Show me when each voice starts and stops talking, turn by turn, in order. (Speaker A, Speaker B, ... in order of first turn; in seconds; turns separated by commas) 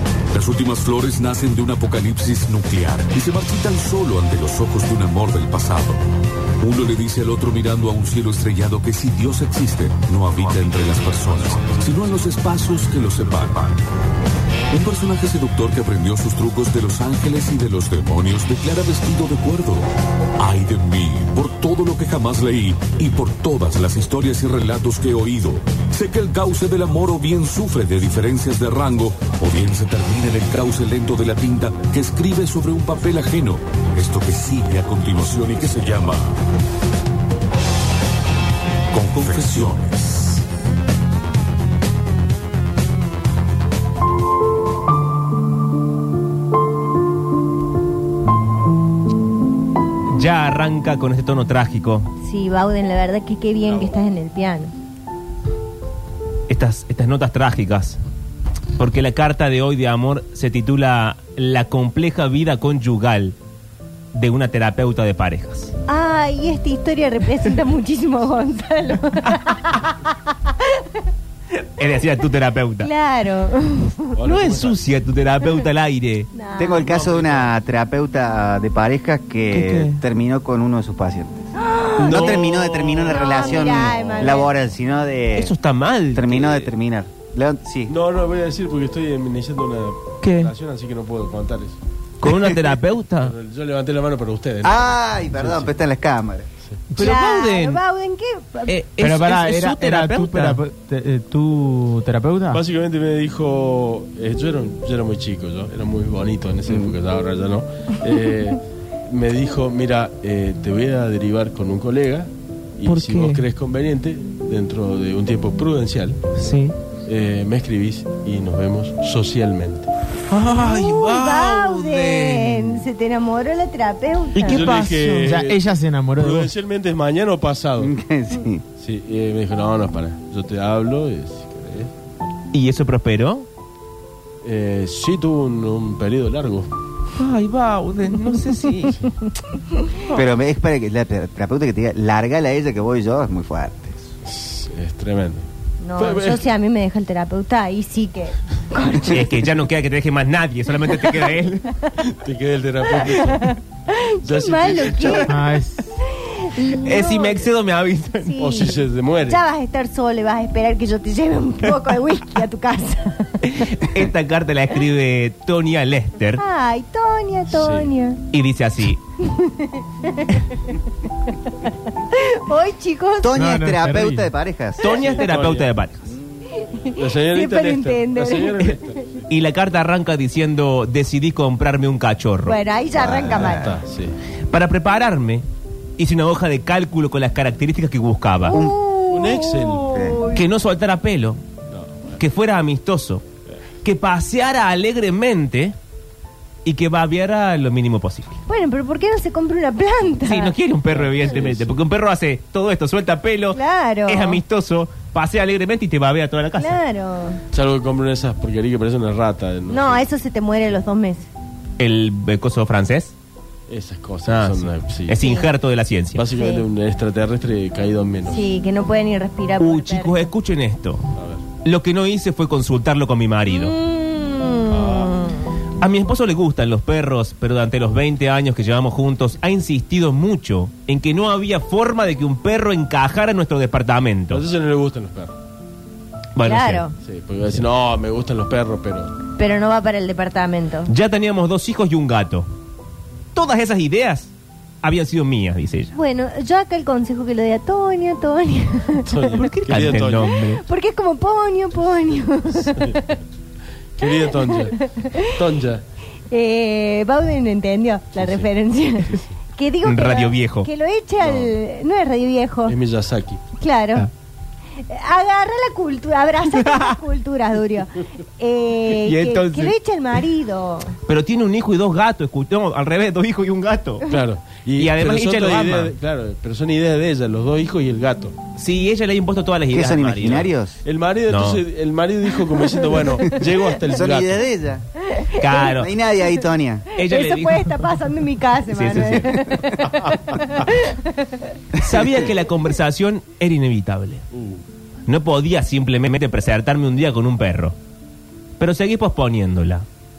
Speaker A: 0.3-6.0, Speaker A: 6.6-13.8, Speaker A: 14.7-19.9, Speaker A: 20.4-36.4, Speaker A: 38.9-40.4, Speaker B: 50.1-52.1, Speaker C: 52.2-54.7, Speaker B: 56.5-58.0, Speaker B: 58.8-63.4, Speaker B: 64.1-65.7, Speaker C: 65.8-71.0, Speaker B: 69.2-69.8, Speaker B: 71.6-72.9, Speaker C: 72.8-74.2, Speaker D: 74.1-74.8, Speaker B: 74.2-76.3, Speaker C: 76.3-76.9, Speaker E: 76.6-81.5, Speaker D: 76.8-77.5, Speaker B: 79.5-80.0, Speaker C: 81.7-82.0, Speaker B: 82.0-83.8, Speaker E: 82.0-85.5, Speaker D: 82.1-82.4, Speaker C: 83.1-84.5, Speaker B: 85.3-86.7, Speaker E: 86.1-87.9, Speaker D: 87.9-91.8, Speaker B: 90.2-90.5, Speaker B: 92.2-93.3, Speaker D: 93.2-95.7, Speaker E: 94.6-96.5, Speaker B: 96.9-97.8, Speaker C: 97.0-98.8, Speaker B: 98.7-100.6, Speaker F: 99.0-102.6, Speaker D: 102.5-116.3, Speaker B: 112.8-113.5, Speaker B: 116.4-116.7, Speaker D: 117.0-119.9, Speaker B: 120.3-122.6, Speaker C: 120.5-124.7, Speaker B: 124.3-125.1, Speaker D: 124.4-127.9, Speaker F: 125.0-126.5, Speaker E: 127.8-128.6, Speaker D: 128.8-131.9, Speaker B: 132.5-133.5, Speaker D: 134.4-136.7, Speaker B: 137.2-139.1, Speaker E: 140.1-144.0, Speaker D: 144.2-145.4, Speaker C: 145.8-149.2, Speaker D: 146.0-146.4, Speaker B: 149.0-151.7, Speaker D: 152.2-153.6, Speaker C: 153.0-157.5, Speaker D: 154.2-155.3, Speaker B: 155.0-155.4, Speaker F: 155.3-155.8, Speaker B: 156.5-158.4, Speaker C: 158.2-163.5, Speaker D: 158.4-159.4, Speaker B: 161.7-162.0, Speaker B: 163.4-166.4, Speaker C: 166.4-168.2, Speaker D: 167.5-167.9, Speaker B: 168.3-169.0, Speaker C: 169.2-170.7, Speaker C: 171.2-173.4, Speaker E: 173.2-174.9, Speaker F: 173.3-174.3, Speaker B: 174.8-176.1, Speaker D: 174.8-175.7, Speaker C: 176.5-178.6, Speaker D: 176.9-179.2, Speaker B: 178.6-182.6, Speaker C: 182.4-183.7, Speaker E: 182.9-183.7, Speaker D: 183.0-184.2, Speaker B: 184.5-185.4, Speaker B: 186.0-188.6, Speaker C: 188.4-190.4, Speaker E: 188.5-188.8, Speaker D: 189.1-190.0, Speaker E: 189.9-190.3, Speaker B: 190.3-191.4, Speaker D: 191.7-192.2, Speaker B: 192.2-193.2, Speaker B: 193.8-195.8, Speaker B: 196.6-198.4, Speaker C: 198.5-200.5, Speaker B: 200.2-206.8, Speaker D: 200.9-201.7, Speaker C: 203.5-204.4, Speaker C: 206.6-207.4, Speaker D: 207.5-210.1, Speaker C: 209.7-211.3, Speaker B: 211.8-213.1, Speaker D: 213.7-215.2, Speaker B: 214.2-216.2, Speaker C: 215.2-215.5, Speaker D: 216.1-218.5, Speaker C: 216.3-216.7, Speaker C: 218.3-220.3, Speaker B: 219.6-221.1, Speaker D: 221.2-221.4, Speaker B: 221.6-223.8, Speaker C: 223.5-225.5, Speaker D: 224.7-225.2, Speaker B: 225.8-234.4, Speaker D: 234.3-235.3, Speaker B: 236.3-236.8, Speaker C: 236.4-236.9, Speaker D: 237.0-239.1, Speaker C: 239.3-240.9, Speaker B: 240.8-242.5, Speaker B: 243.3-245.9, Speaker C: 245.9-249.3, Speaker D: 249.1-250.4, Speaker B: 249.3-250.6, Speaker C: 250.5-253.2, Speaker D: 254.0-255.8, Speaker C: 254.1-255.4, Speaker C: 256.3-262.8, Speaker D: 258.2-258.5, Speaker B: 259.8-260.7, Speaker D: 261.2-261.5, Speaker D: 262.6-263.4, Speaker C: 263.6-264.1, Speaker C: 264.8-270.9, Speaker B: 266.5-266.9, Speaker B: 268.9-269.8, Speaker B: 271.0-274.1, Speaker D: 274.1-278.4, Speaker B: 274.8-275.9, Speaker B: 278.6-280.5, Speaker E: 279.7-280.8, Speaker D: 280.8-284.5, Speaker B: 281.3-281.6, Speaker E: 283.9-284.8, Speaker C: 285.0-285.7, Speaker B: 285.3-285.9, Speaker E: 285.7-286.9, Speaker C: 286.9-291.4, Speaker B: 286.9-287.9, Speaker B: 288.7-289.5, Speaker B: 291.8-294.2, Speaker D: 294.3-294.6, Speaker B: 295.1-297.8, Speaker B: 298.6-299.9